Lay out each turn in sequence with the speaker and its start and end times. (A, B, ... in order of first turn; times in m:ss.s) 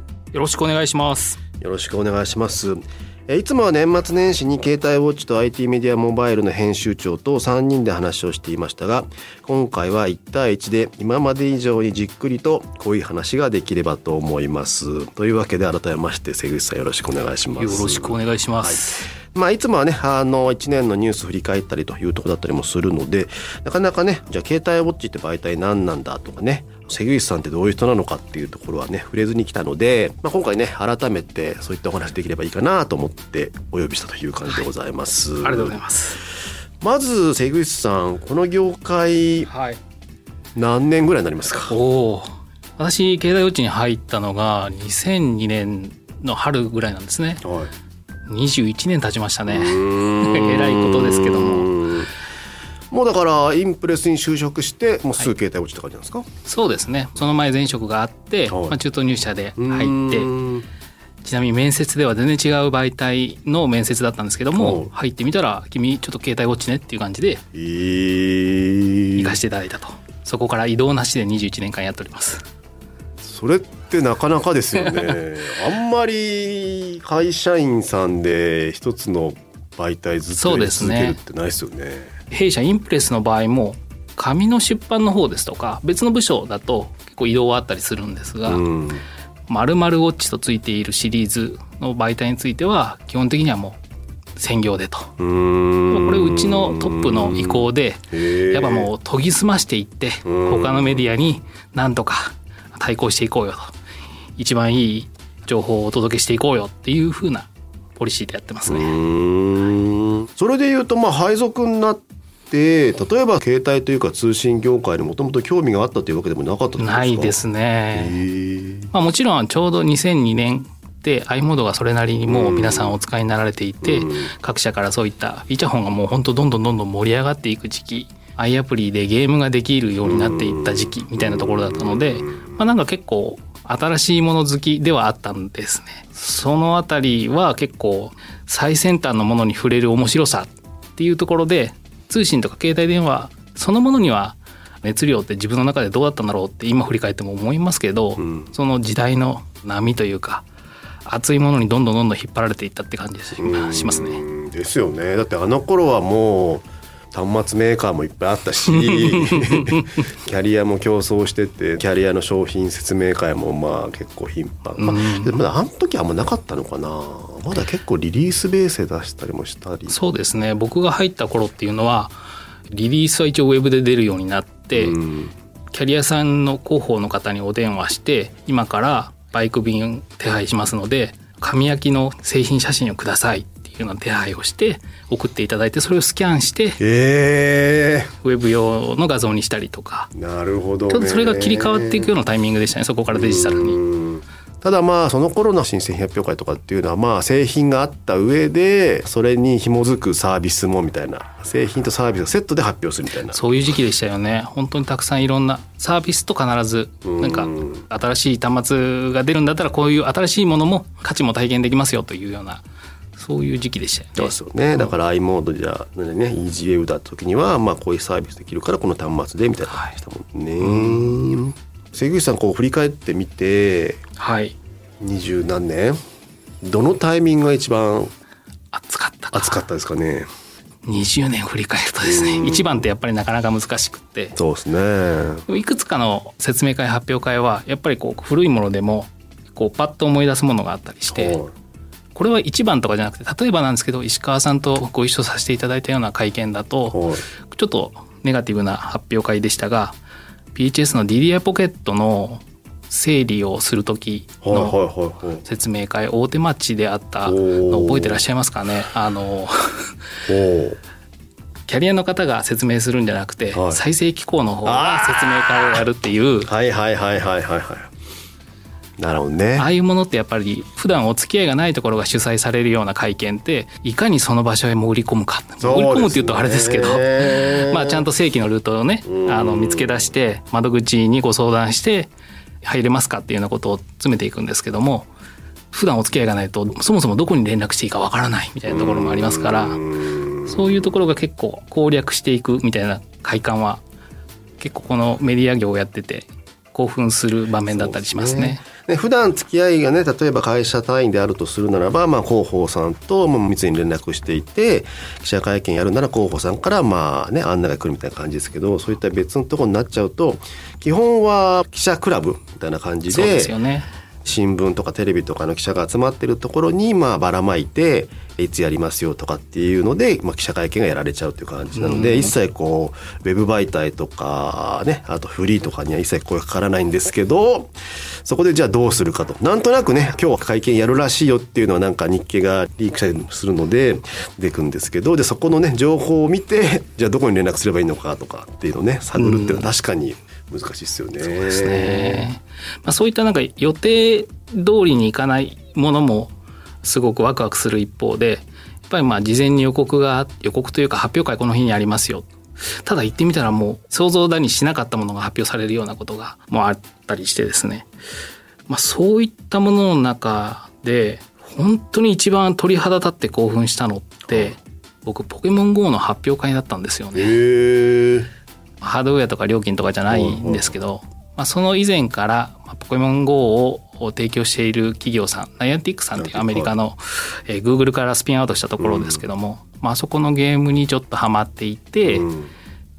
0:00.3-0:01.4 A
0:01.6-0:35.8 B
0:17.6-0:19.1 A
0:35.4-0:36.2 A
0:36.8-0:39.5 B
0:39.5-0:39.8 A
0:40.6-0:41.8 B
0:41.7-0:47.4 A
0:47.4-0:47.7 B
0:48.3-0:51.7 A
0:49.5-0:52.1 B
0:52.9-0:56.3 B
0:56.4-1:00.3 A
0:58.5-0:58.8 B
0:59.6-1:00.6 B
1:01.2-1:07.4 A
1:04.6-1:04.9 B
1:07.5-1:09.4 B
1:09.2-1:12.4 A
1:13.2-1:22.1 B
1:20.4-1:21.2 A
1:22.3-1:28.6 A
1:28.5-1:29.0 B
1:29.5-1:33.8 A
1:34.4-1:35.1 A
1:35.2-1:38.9 B
1:35.9-1:43.7 A
1:40.3-1:41.1 B
1:44.4-1:48.9 A
1:48.7-1:57.4 B
1:56.8-1:58.2 A
1:57.9-1:58.9 B
1:58.9-2:30.4 A
2:02.3-2:03.0 B
2:03.8-2:04.3 B
2:10.0-2:12.6 B
2:28.2-2:28.5 B
2:31.1-2:34.2 A
2:33.4-2:50.0 B
2:38.7-2:40.0 A
2:44.8-2:45.4 A
2:49.9-2:52.1 A
2:52.7-2:55.0 A
2:54.8-2:55.3 B
2:55.7-3:06.8 A
3:06.8-3:08.1 B
3:08.2-3:10.1 A
3:10.1-3:12.1 B
3:10.9-3:13.8 A
3:13.1-3:23.4 B
3:23.3-3:32.6 A
3:27.1-3:27.8 B
3:33.2-3:34.9 A
3:34.2-3:44.0 B
3:40.6-3:41.4 A
3:44.2-3:44.6 A
3:45.0-3:46.0 B
3:46.6-3:48.1 B
3:48.7-3:49.6 A
3:49.3-3:50.3 B
3:50.8-3:54.4 A
3:52.0-3:52.8 B
3:54.4-3:55.5 B
3:55.5-4:01.4 A
4:01.1-4:01.5 B
4:02.2-4:10.0 A
4:06.9-4:07.2 B
4:10.5-4:14.8 A
4:14.4-4:15.4 B
4:15.4-4:20.0 A
4:17.2-4:18.2 B
4:20.3-4:20.8 B
4:21.7-4:26.5 A
4:23.5-4:23.8 B
4:24.6-4:25.8 B
4:26.5-4:27.9 B
4:29.0-4:29.7 B
4:29.6-4:42.1 A
4:35.6-4:38.0 B
4:39.1-4:40.1 B
4:42.6-4:45.1 A
4:45.7-4:53.8 A
4:48.7-4:50.9 B
4:54.6-4:58.6 A
4:57.7-5:13.5 B
5:13.1-5:13.9 A
5:14.2-5:42.3 B
5:21.8-5:22.3 A
5:39.2-5:39.7 A
5:41.3-5:52.3 A
5:52.8-5:57.9 A
5:58.7-6:07.4 A
6:07.2-6:08.3 B
6:08.8-6:22.3 A
6:10.1-6:10.7 B
6:16.2-6:16.8 B
6:18.8-6:19.2 B
6:22.1-6:22.5 B